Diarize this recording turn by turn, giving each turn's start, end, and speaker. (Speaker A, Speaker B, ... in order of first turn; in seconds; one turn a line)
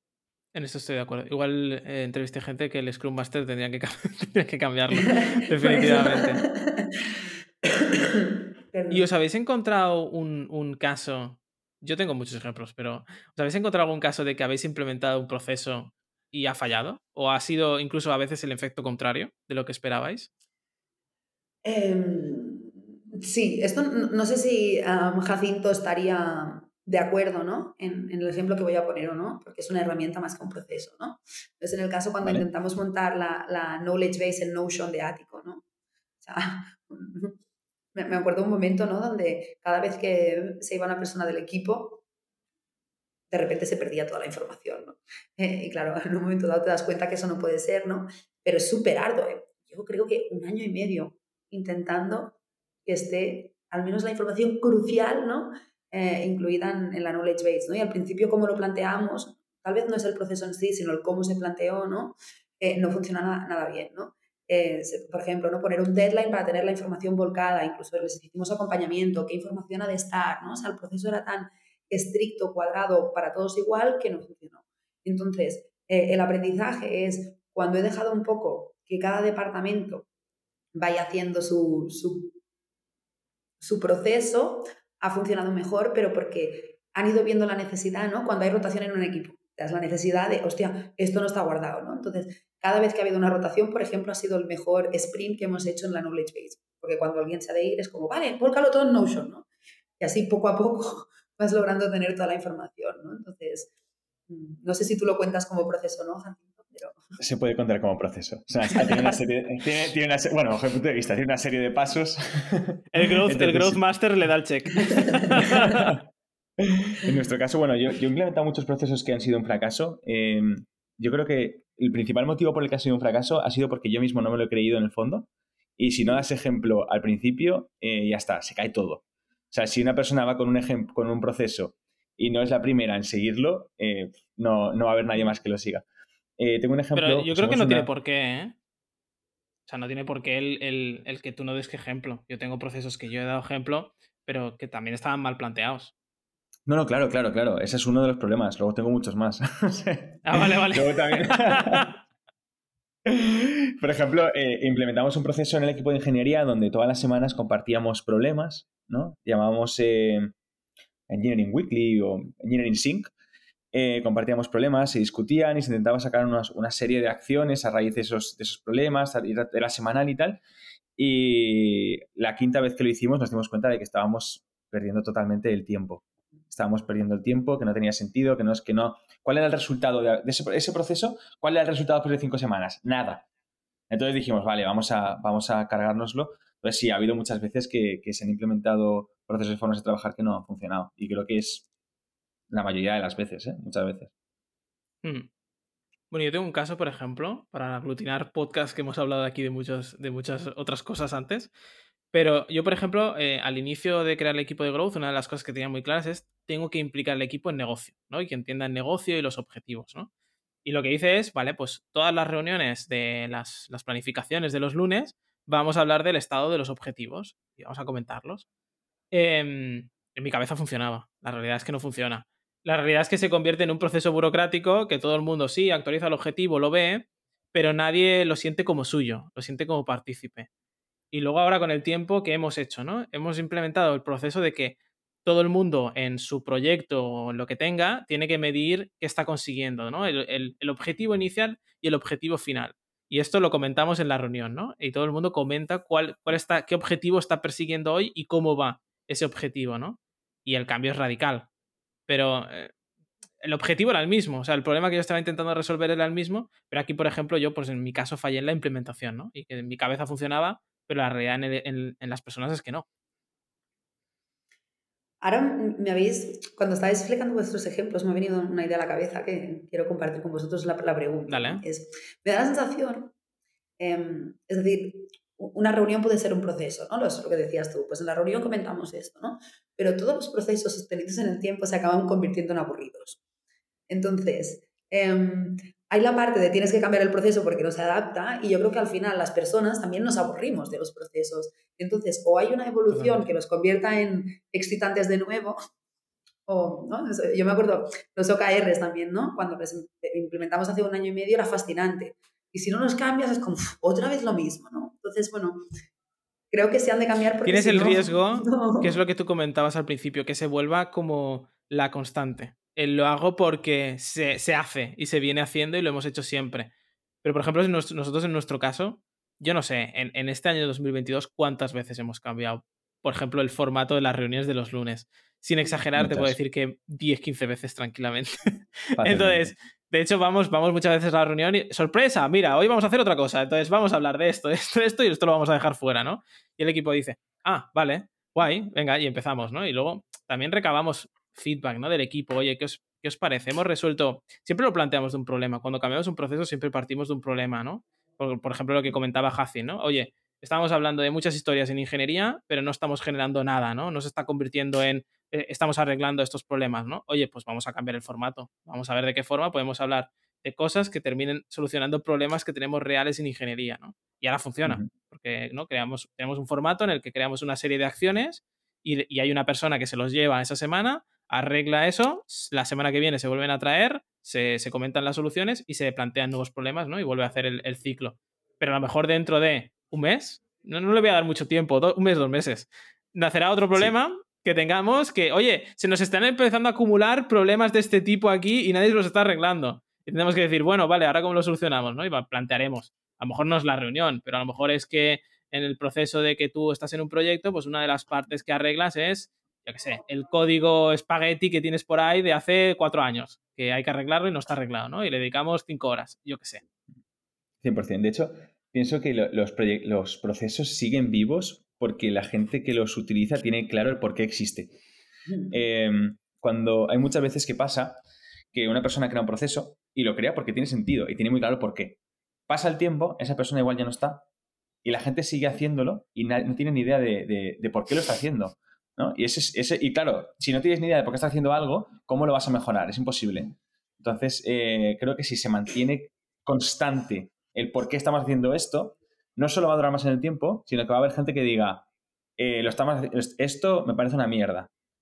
Speaker A: 0.5-6.4
Speaker B: 5.0-9.1
Speaker A: 8.9-20.3
Speaker B: 21.6-35.6
Speaker B: 36.2-37.4
Speaker B: 38.0-42.0
Speaker B: 43.3-80.1
Speaker B: 80.8-82.4
Speaker B: 83.6-99.5
Speaker B: 100.0-103.7
Speaker B: 104.3-107.0
Speaker C: 107.2-113.8
Speaker A: 112.9-116.0
Speaker B: 115.0-115.3
Speaker C: 116.6-135.8
Speaker C: 136.4-137.9
Speaker A: 136.9-138.6
Speaker A: 139.7-145.9
Speaker C: 146.7-151.9
Speaker A: 150.2-151.9
Speaker C: 153.1-160.3
Speaker C: 161.1-163.1
Speaker C: 163.7-170.4
Speaker C: 171.0-183.3
Speaker C: 183.9-191.7
Speaker C: 192.5-194.1
Speaker A: 195.0-195.3
Speaker A: 196.1-201.5
Speaker A: 202.1-210.1
Speaker A: 210.7-218.4
Speaker A: 219.1-230.5
Speaker A: 231.1-251.5
Speaker A: 252.1-252.7
Speaker A: 253.4-262.9
Speaker B: 265.2-273.1
Speaker A: 271.3-271.6
Speaker B: 273.8-283.2
Speaker B: 283.9-295.6
Speaker A: 292.9-293.3
Speaker B: 296.5-305.6
Speaker B: 306.5-309.0
Speaker A: 307.4-316.7
Speaker A: 317.2-328.3
Speaker C: 326.0-326.4
Speaker C: 329.0-329.5
Speaker A: 329.0-406.6
Speaker C: 407.6-414.8
Speaker C: 415.5-418.0
Speaker C: 418.5-424.3
Speaker C: 424.8-441.9
Speaker C: 442.4-444.7